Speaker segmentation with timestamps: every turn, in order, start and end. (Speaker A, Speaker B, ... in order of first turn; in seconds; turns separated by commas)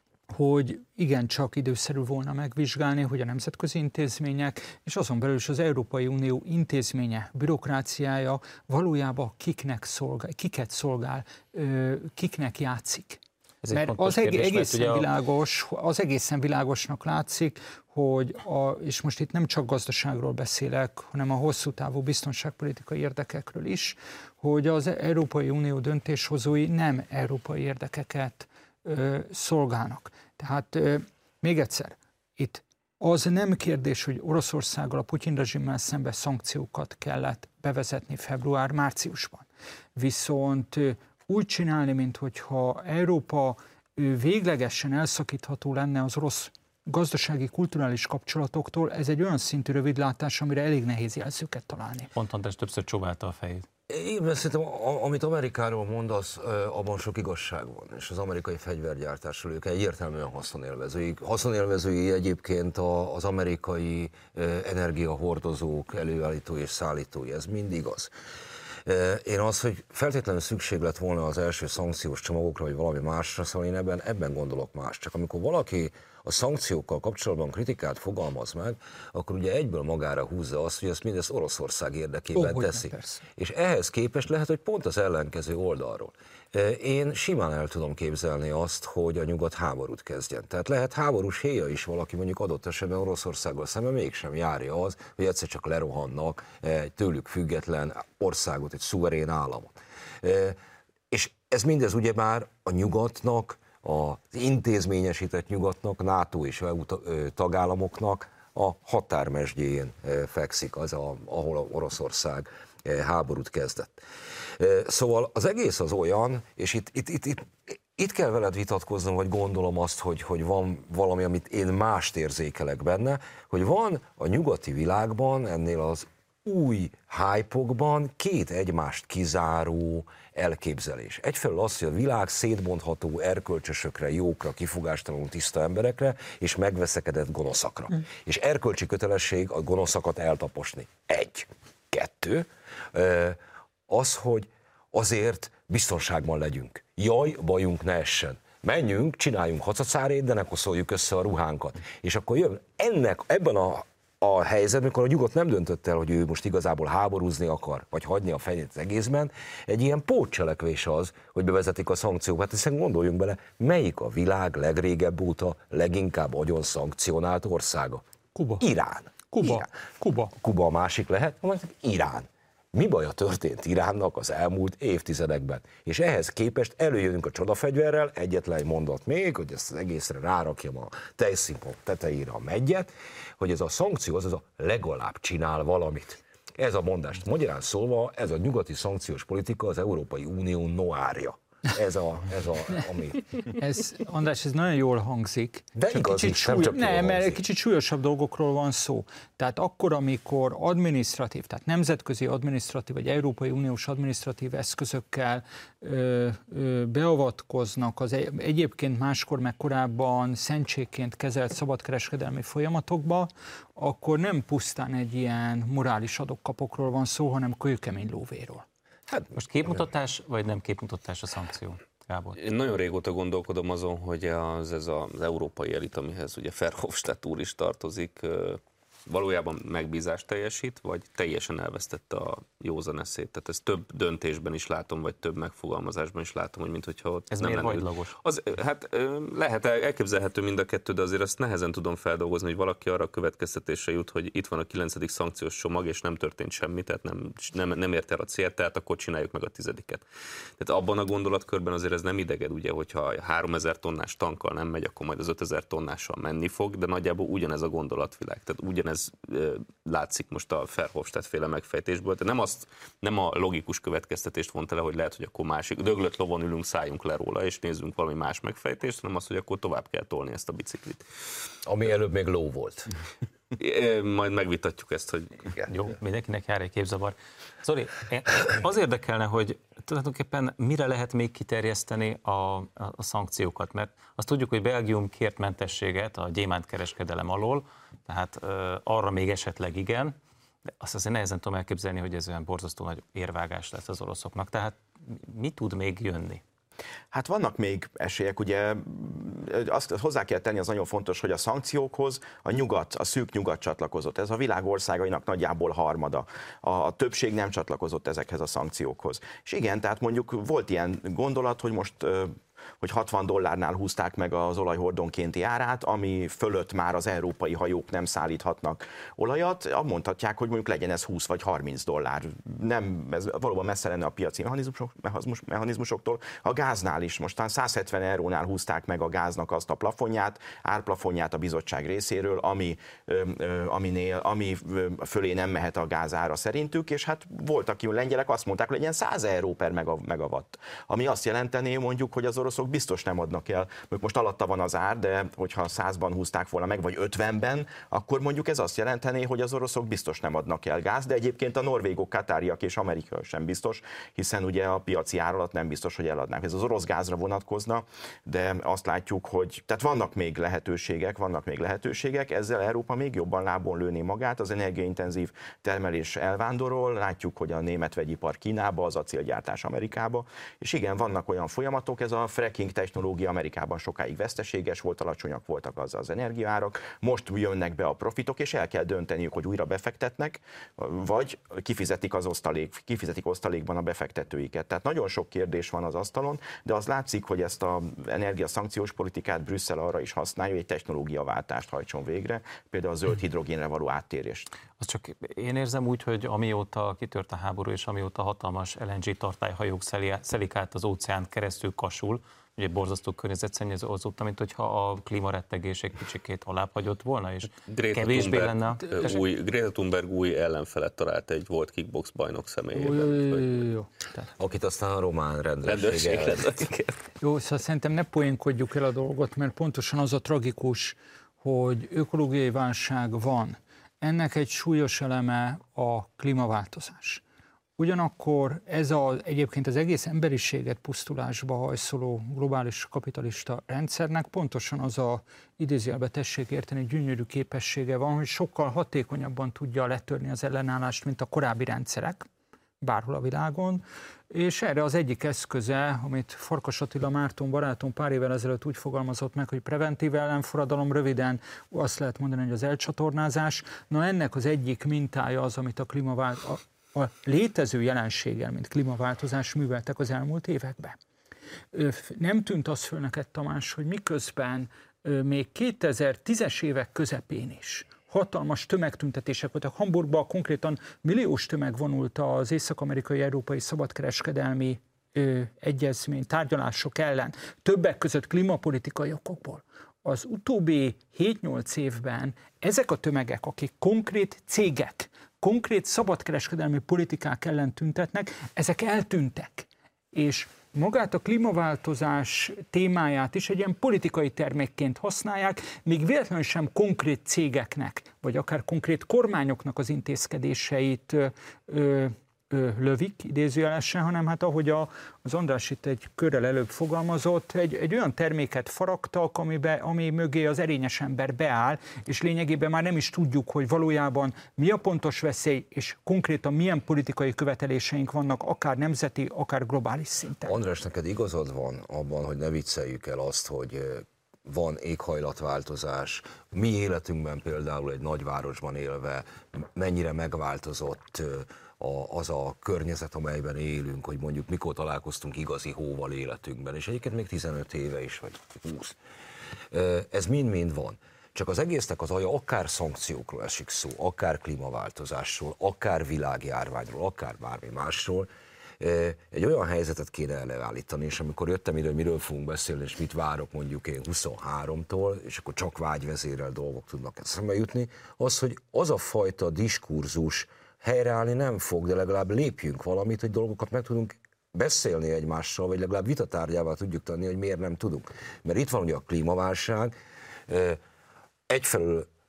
Speaker A: 0.3-13.2, Speaker B: 13.6-15.1, Speaker A: 13.7-52.1, Speaker B: 52.1-53.7, Speaker C: 53.9-68.1, Speaker C: 68.8-100.6, Speaker A: 82.3-83.2, Speaker C: 101.1-114.0, Speaker C: 114.6-168.0, Speaker A: 168.3-168.6, Speaker C: 168.6-169.7, Speaker A: 169.3-170.3, Speaker C: 170.4-193.2, Speaker A: 193.5-218.6, Speaker C: 195.8-197.4, Speaker B: 219.3-222.4, Speaker D: 222.4-250.0, Speaker B: 237.3-238.1, Speaker D: 250.6-271.0, Speaker C: 271.6-272.9, Speaker D: 273.6-275.7, Speaker B: 275.7-290.1, Speaker B: 290.8-296.4, Speaker E: 297.1-394.5, Speaker B: 394.8-409.1, Speaker D: 407.6-413.6, Speaker A: 412.7-414.2, Speaker C: 414.4-416.6, Speaker D: 415.6-417.0, Speaker A: 417.2-427.2, Speaker A: 427.8-442.3, Speaker A: 442.8-461.0, Speaker A: 461.7-520.5, Speaker C: 520.4-539.0, Speaker C: 539.7-569.9, Speaker C: 570.5-570.8, Speaker C: 571.5-572.1